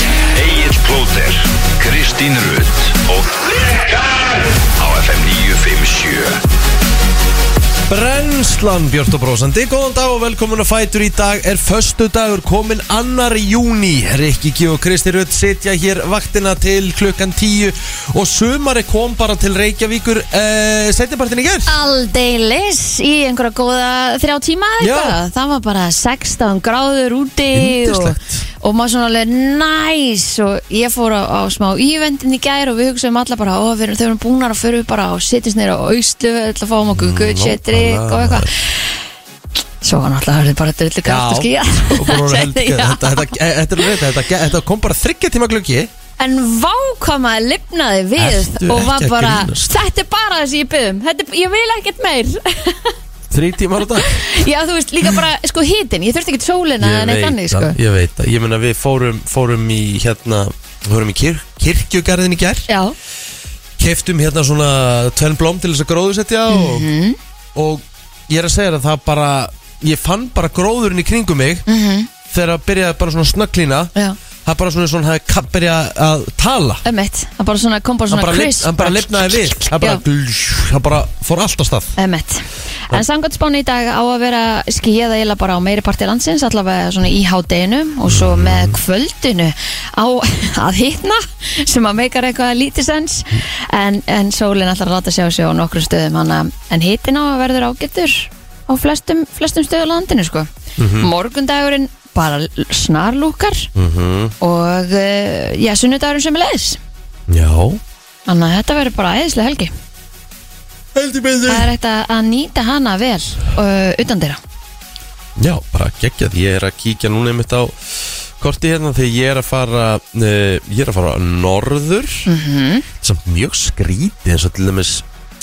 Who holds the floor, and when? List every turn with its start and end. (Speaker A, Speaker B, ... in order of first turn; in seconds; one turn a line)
Speaker A: 0.3-6.4
Speaker B: 7.9-21.7
Speaker C: 21.7-38.9
Speaker B: 24.8-25.2
Speaker B: 27.5-28.4
Speaker B: 36.9-38.5
Speaker C: 39.8-43.4
Speaker B: 41.0-45.9
Speaker C: 46.2-52.9
Speaker B: 48.2-49.8
Speaker B: 53.3-54.4
Speaker C: 54.0-57.8
Speaker B: 56.8-62.7
Speaker C: 62.7-62.9
Speaker B: 63.8-66.9
Speaker C: 66.5-67.2
Speaker B: 67.5-71.7
Speaker C: 71.7-72.1
Speaker B: 72.3-73.9
Speaker B: 74.4-76.8
Speaker C: 76.8-80.0
Speaker B: 78.1-81.9
Speaker C: 82.0-103.7
Speaker B: 88.1-88.8
Speaker B: 100.8-101.1
Speaker B: 103.7-104.3
Speaker C: 104.4-106.8
Speaker B: 107.3-107.8
Speaker C: 108.2-109.7
Speaker B: 110.9-111.7
Speaker C: 111.5-114.4
Speaker B: 115.4-122.3
Speaker C: 122.2-122.8
Speaker B: 123.0-125.0